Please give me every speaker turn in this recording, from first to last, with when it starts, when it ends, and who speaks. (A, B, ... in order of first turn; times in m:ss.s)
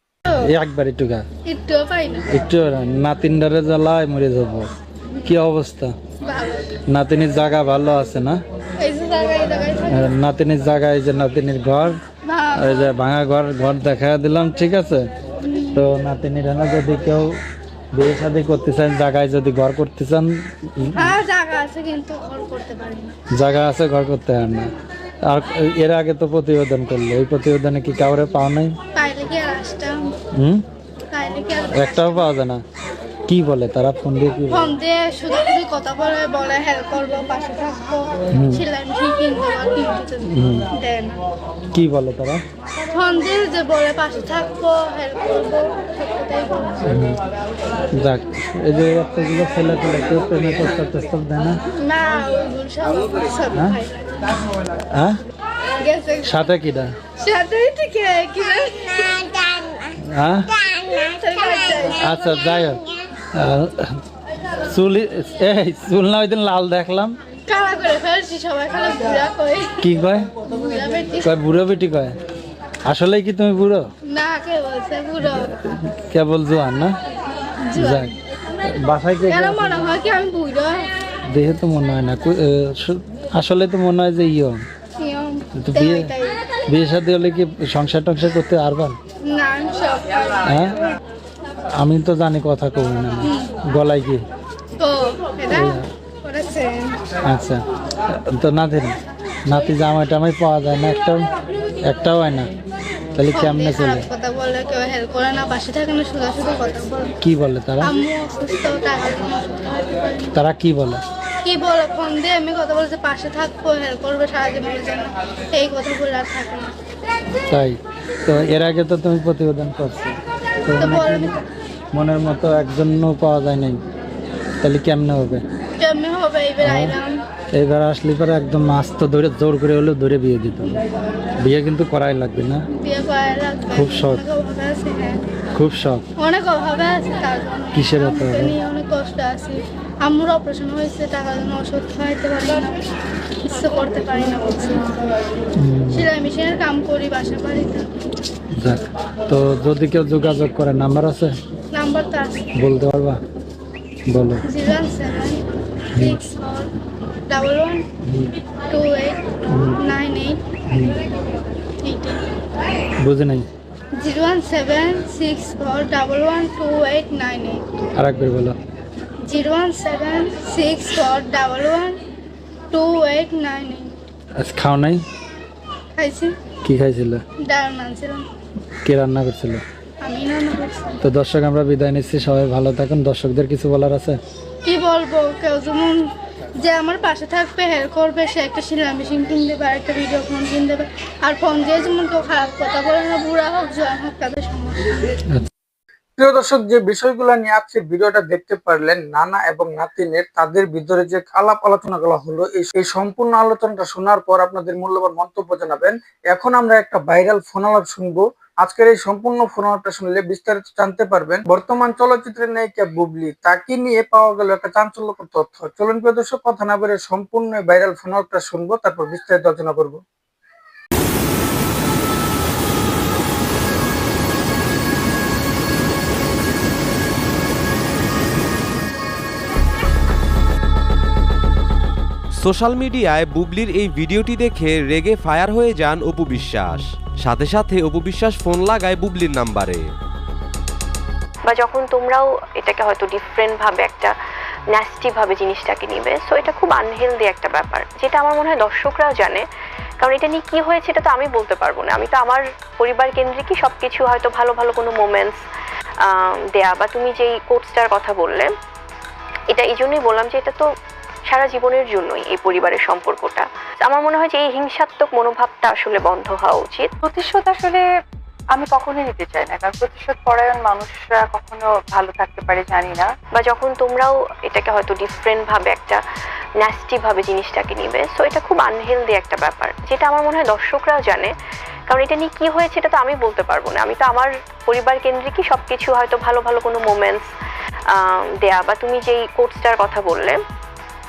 0:00.4-0:01.2 A
0:01.5-0:02.3 B
0:02.3-0:04.7 A
0:05.2-0:06.0 A
0:06.2-0:06.6 B
0:06.9-0:08.4 A
0:08.8-0:10.1 B
0:09.9-0:12.0 A
0:12.2-0:12.9 B
0:12.6-0:15.1 A
0:15.4-0:15.8 B
0:15.7-0:17.4 A
0:17.9-0:21.2 A
0:20.9-0:23.2 B
0:23.3-0:24.7 A
0:25.3-0:28.8 A
0:28.9-0:30.2 B
0:30.4-0:30.6 A
0:31.1-0:32.3 B
0:31.7-0:32.6 A
0:33.3-0:34.7 A
0:34.5-0:41.2 B
0:38.3-0:38.6 A
0:40.2-0:40.7 A
0:41.7-0:42.4 A
0:42.8-0:46.8 B
0:46.9-0:47.2 A
0:47.9-0:51.6 A
0:51.8-0:54.3 B
0:53.6-0:53.8 A
0:54.9-0:55.2 A
0:55.8-0:56.5 B
0:56.2-0:56.9 A
0:57.2-0:59.9 B
1:00.0-1:00.5 A
1:00.7-1:02.2 B
1:02.0-1:04.0 A
1:04.7-1:07.2 A
1:07.5-1:09.8 B
1:09.8-1:10.3 A
1:10.4-1:11.3 B
1:11.2-1:12.2 A
1:12.8-1:13.9 A
1:14.0-1:15.5 B
1:15.3-1:17.0 A
1:17.6-1:18.1 B
1:17.8-1:19.9 A
1:19.3-1:20.9 B
1:21.3-1:24.6 A
1:25.0-1:26.4 B
1:25.6-1:26.1 A
1:26.7-1:29.0 A
1:29.2-1:30.5 B
1:30.4-1:30.8 A
1:31.8-1:34.2 A
1:33.2-1:33.5 B
1:34.8-1:37.0 B
1:35.5-1:35.8 A
1:37.2-1:41.3 A
1:41.8-1:42.5 A
1:43.2-1:44.1 A
1:43.3-1:47.2 B
1:47.2-1:47.9 A
1:47.8-1:50.4 B
1:50.3-1:51.0 A
1:51.4-1:56.8 B
1:57.5-2:01.4 A
2:00.8-2:01.4 B
2:01.9-2:03.8 A
2:04.6-2:05.4 A
2:05.8-2:07.2 B
2:06.6-2:07.0 A
2:07.6-2:10.8 A
2:11.4-2:12.6 A
2:12.7-2:15.3 B
2:13.7-2:14.2 A
2:15.6-2:16.0 A
2:16.2-2:25.0 B
2:17.7-2:18.6 A
2:25.6-2:26.1 A
2:25.9-2:28.0 B
2:28.6-2:31.4 A
2:31.7-2:32.5 B
2:32.6-2:33.2 A
2:34.1-2:34.4 A
2:34.5-2:36.7 B
2:36.0-2:36.2 A
2:37.3-2:37.8 B
2:38.0-2:38.3 A
2:38.7-2:40.4 B
2:39.5-2:39.8 A
2:40.7-2:41.0 A
2:41.8-2:42.2 B
2:43.0-2:43.5 A
2:43.9-2:47.6 B
2:48.0-2:48.6 A
2:49.2-2:52.0 B
2:52.7-2:53.9 B
2:54.4-2:55.0 A
2:56.0-2:56.4 B
2:56.6-2:57.2 A
2:57.4-2:58.3 B
2:58.8-2:59.6 A
3:00.0-3:01.0 B
3:01.0-3:04.2 A
3:04.6-3:06.1 B
3:06.6-3:15.1 B
3:16.2-3:40.0 C
3:52.4-3:59.9 D
4:01.5-4:04.1 E
4:04.7-4:09.4 E
4:10.0-4:15.4 E
4:16.0-4:18.5 E
4:19.5-4:20.6 E
4:21.3-4:26.9 E
4:27.0-4:27.9 F
4:28.5-4:33.1 F
4:33.3-4:36.0 E
4:36.6-4:41.3 E
4:41.9-4:47.2 E
4:47.9-4:50.4 E